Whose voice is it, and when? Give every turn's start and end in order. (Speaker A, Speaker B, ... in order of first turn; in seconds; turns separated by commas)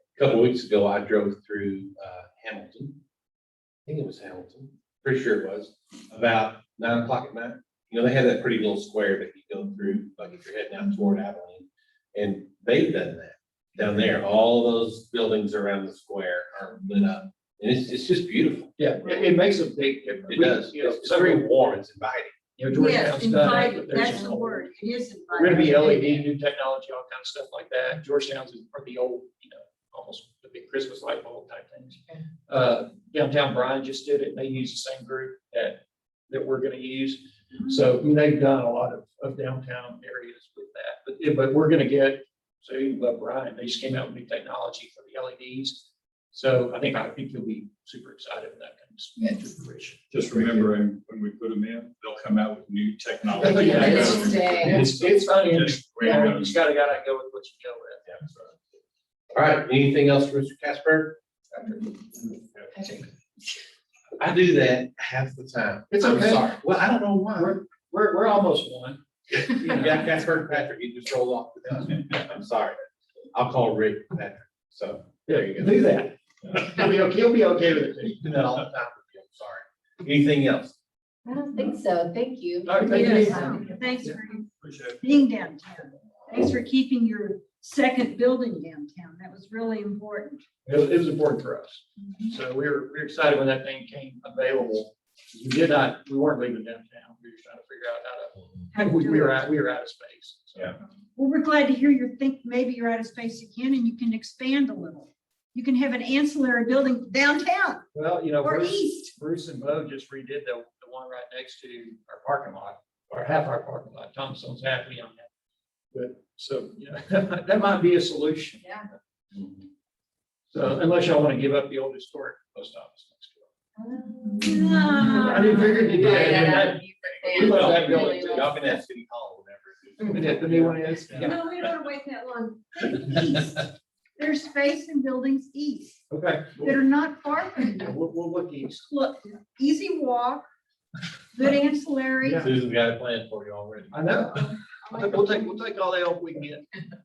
Speaker A: 0.2-3.0, Speaker A: 3.9-18.7, Speaker B: 18.8-21.4, Speaker A: 20.3-22.3, Speaker B: 22.6-24.7, Speaker C: 22.7-26.0, Speaker B: 25.3-50.0, Speaker D: 50.1-56.5, Speaker E: 53.4-54.8, Speaker B: 53.4-58.0, Speaker A: 59.3-61.2, Speaker B: 61.5-63.1, Speaker A: 64.2-67.6, Speaker B: 65.9-66.5, Speaker B: 67.3-70.1, Speaker A: 69.4-72.8, Speaker A: 73.3-75.7, Speaker B: 75.2-78.4, Speaker A: 78.2-80.8, Speaker E: 81.2-83.7, Speaker B: 82.7-84.2, Speaker C: 82.8-90.4, Speaker D: 84.6-85.0, Speaker B: 90.6-100.8, Speaker C: 98.7-99.4, Speaker C: 101.2-107.9, Speaker B: 107.9-115.3, Speaker C: 108.4-109.1, Speaker B: 115.9-118.8, Speaker E: 118.6-118.9, Speaker B: 120.5-123.5, Speaker E: 123.8-128.6, Speaker B: 124.3-128.6, Speaker C: 124.4-126.0, Speaker A: 127.3-131.3, Speaker B: 130.1-131.4, Speaker C: 131.1-136.0, Speaker B: 136.1-136.7, Speaker C: 136.6-137.9, Speaker B: 137.8-138.8, Speaker C: 138.8-140.4, Speaker C: 141.3-142.4, Speaker A: 142.4-144.0, Speaker B: 143.9-146.7